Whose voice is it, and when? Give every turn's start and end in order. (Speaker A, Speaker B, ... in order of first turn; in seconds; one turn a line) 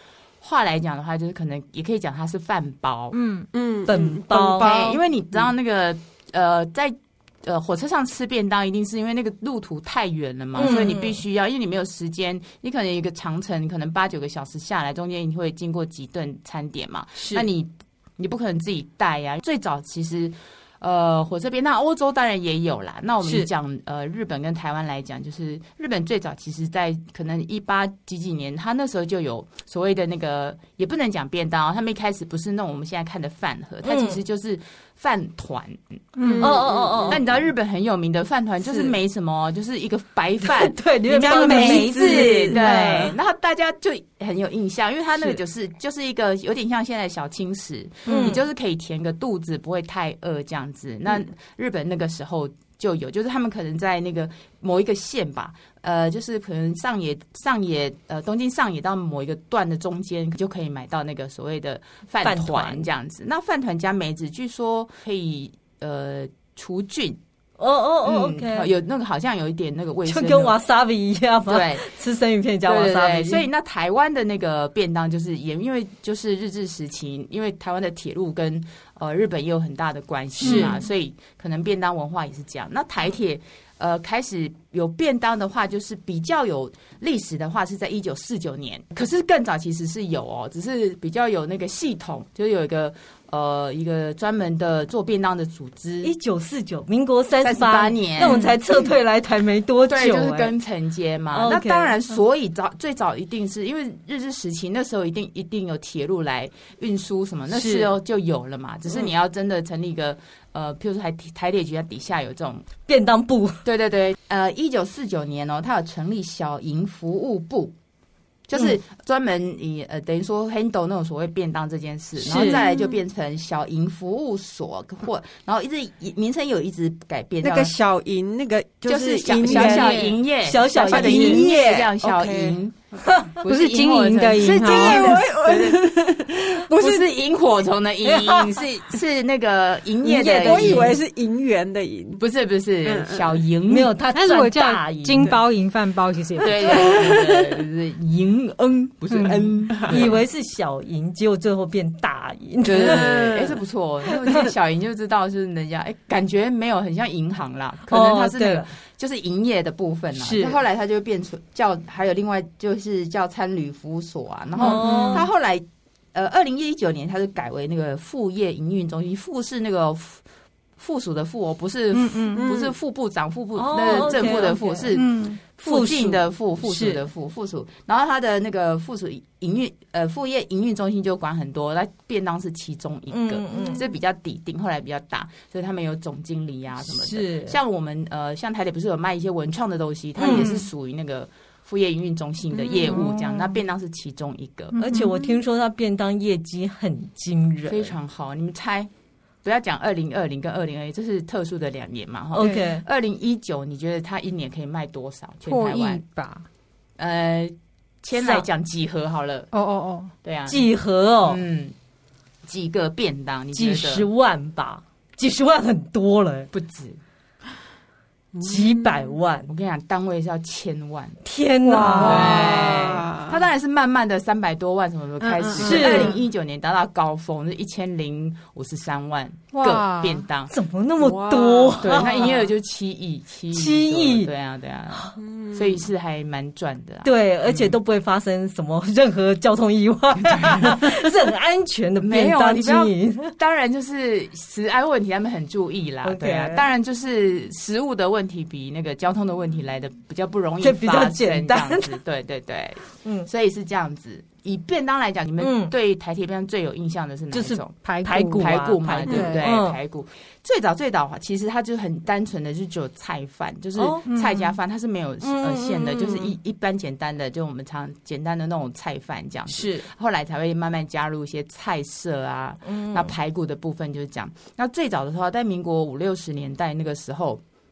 Speaker A: 0.4-3.1
Speaker B: 3.1-3.5
Speaker C: 3.5-5.5
Speaker D: 3.9-4.7
Speaker A: 4.5-36.0
Speaker D: 10.5-11.2
Speaker D: 17.2-17.4
Speaker D: 23.2-23.5
Speaker D: 33.8-34.2
Speaker B: 36.2-36.6
Speaker C: 36.2-37.2
Speaker D: 36.4-37.2
Speaker A: 37.1-67.2
Speaker D: 40.4-43.1
Speaker C: 41.3-42.3
Speaker D: 48.1-48.4
Speaker D: 62.2-62.9
Speaker D: 67.6-68.7
Speaker A: 68.0-70.5
Speaker D: 70.1-73.4
Speaker A: 71.5-71.9
Speaker A: 72.7-96.1
Speaker D: 80.4-80.8
Speaker B: 80.4-80.7
Speaker D: 96.0-100.5
Speaker A: 97.4-98.9
Speaker A: 99.9-112.7
Speaker D: 101.3-102.0
Speaker D: 107.5-107.9
Speaker D: 112.9-113.6
Speaker A: 113.6-117.7
Speaker A: 118.5-127.7
Speaker D: 122.2-122.6
Speaker C: 127.4-130.1
Speaker A: 128.9-132.7
Speaker D: 129.4-131.5
Speaker C: 130.7-132.6
Speaker D: 133.1-133.3
Speaker A: 133.3-140.9
Speaker B: 133.4-135.2
Speaker C: 134.5-137.1
Speaker D: 138.1-138.6
Speaker D: 140.1-141.0
Speaker C: 140.1-142.2
Speaker A: 142.2-143.9
Speaker C: 142.8-143.4
Speaker D: 143.7-145.4
Speaker B: 144.1-147.1
Speaker A: 146.4-150.2
Speaker C: 146.7-147.6
Speaker B: 149.1-149.5
Speaker D: 149.9-153.4
Speaker A: 152.6-170.2
Speaker D: 157.9-158.7
Speaker D: 160.2-160.6
Speaker D: 164.6-165.3
Speaker A: 170.8-194.8
Speaker B: 171.9-172.5
Speaker C: 172.3-172.7
Speaker D: 173.6-174.8
Speaker B: 174.9-175.4
Speaker D: 175.6-177.0
Speaker D: 183.1-183.8
Speaker D: 186.8-187.6
Speaker D: 190.2-190.5
Speaker B: 190.3-190.7
Speaker C: 192.5-193.0
Speaker B: 194.7-195.4
Speaker D: 194.7-197.9
Speaker A: 197.7-198.9
Speaker A: 199.4-206.0
Speaker D: 202.3-202.8
Speaker B: 205.4-206.4
Speaker A: 207.0-209.5
Speaker D: 208.2-208.4
Speaker B: 209.5-210.1
Speaker A: 210.2-210.7
Speaker D: 210.5-211.4
Speaker A: 211.2-211.7
Speaker A: 212.4-214.1
Speaker D: 213.5-216.5
Speaker A: 216.5-217.0
Speaker C: 218.3-219.0
Speaker D: 218.4-219.5
Speaker A: 219.5-221.2
Speaker D: 221.2-222.7
Speaker C: 221.7-223.4
Speaker A: 221.9-230.5
Speaker B: 225.2-226.1
Speaker D: 225.6-226.2
Speaker B: 229.5-230.2
Speaker D: 230.5-232.4
Speaker C: 231.0-232.3
Speaker A: 231.8-237.7
Speaker D: 233.5-234.3
Speaker C: 235.2-235.8
Speaker D: 237.0-243.3
Speaker A: 240.2-240.9
Speaker A: 242.0-257.7
Speaker D: 246.0-246.6
Speaker D: 250.6-252.0
Speaker D: 253.0-253.3
Speaker D: 255.4-255.7
Speaker D: 257.3-259.8
Speaker B: 257.8-258.5
Speaker A: 258.3-277.4
Speaker B: 259.0-259.5
Speaker D: 263.8-264.1
Speaker B: 264.1-264.6
Speaker D: 265.2-266.3
Speaker D: 269.5-269.9
Speaker D: 272.6-273.1